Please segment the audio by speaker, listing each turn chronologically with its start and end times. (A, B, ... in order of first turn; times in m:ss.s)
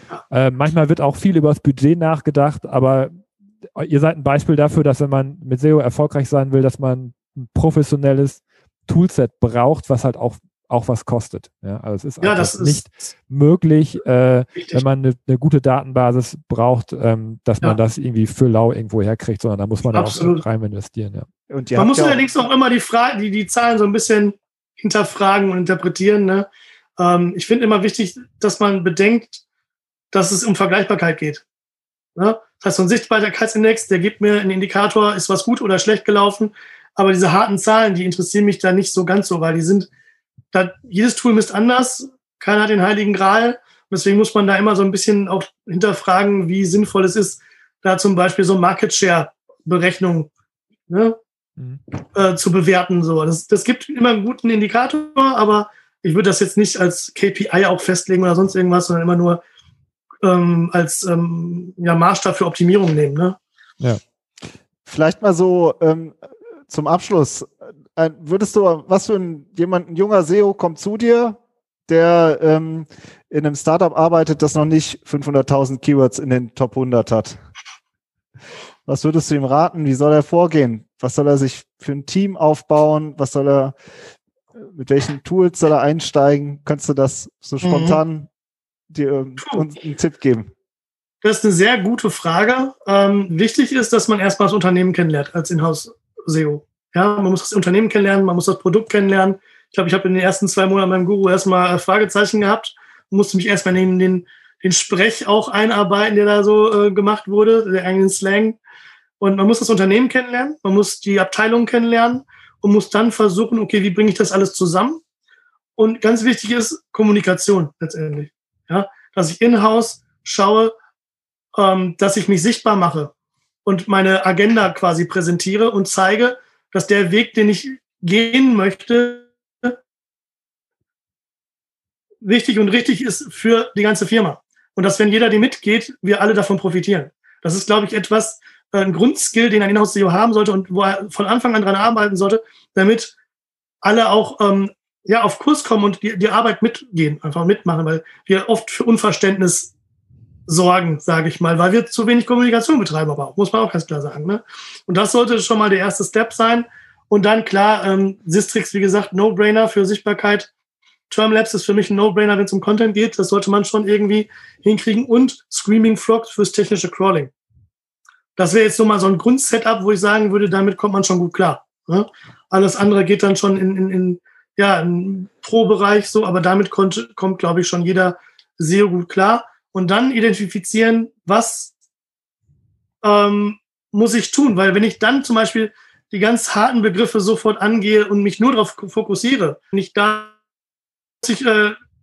0:00.3-0:03.2 A
0:03.8-0:21.2 A
0:12.2-0:12.8 B
0:14.5-0:14.8 B
0:19.9-0:20.4 B
0:21.5-0:22.3 C
0:21.8-0:26.5 B
0:27.0-0:29.4 B
0:30.1-0:31.4 B
0:32.2-0:39.9 B
0:40.5-0:50.3 B
0:50.9-0:51.2 B
0:52.1-0:59.4 B
1:00.2-1:03.4 B
1:04.8-1:17.4 C
1:18.8-1:23.7 C
1:24.6-1:28.3 C
1:27.6-1:28.0 B
1:28.9-1:30.5 C
1:29.4-1:29.7 B
1:31.2-1:48.6 B
1:49.2-1:55.0 B
1:55.8-2:00.7 B
2:01.5-2:03.1 B
2:03.6-2:09.8 B
2:12.2-2:23.1 B
2:23.8-2:29.7 B
2:30.5-2:40.5 B
2:41.1-2:47.3 B
2:48.4-3:01.7 B
3:03.0-3:10.3 B
3:11.2-3:11.8 B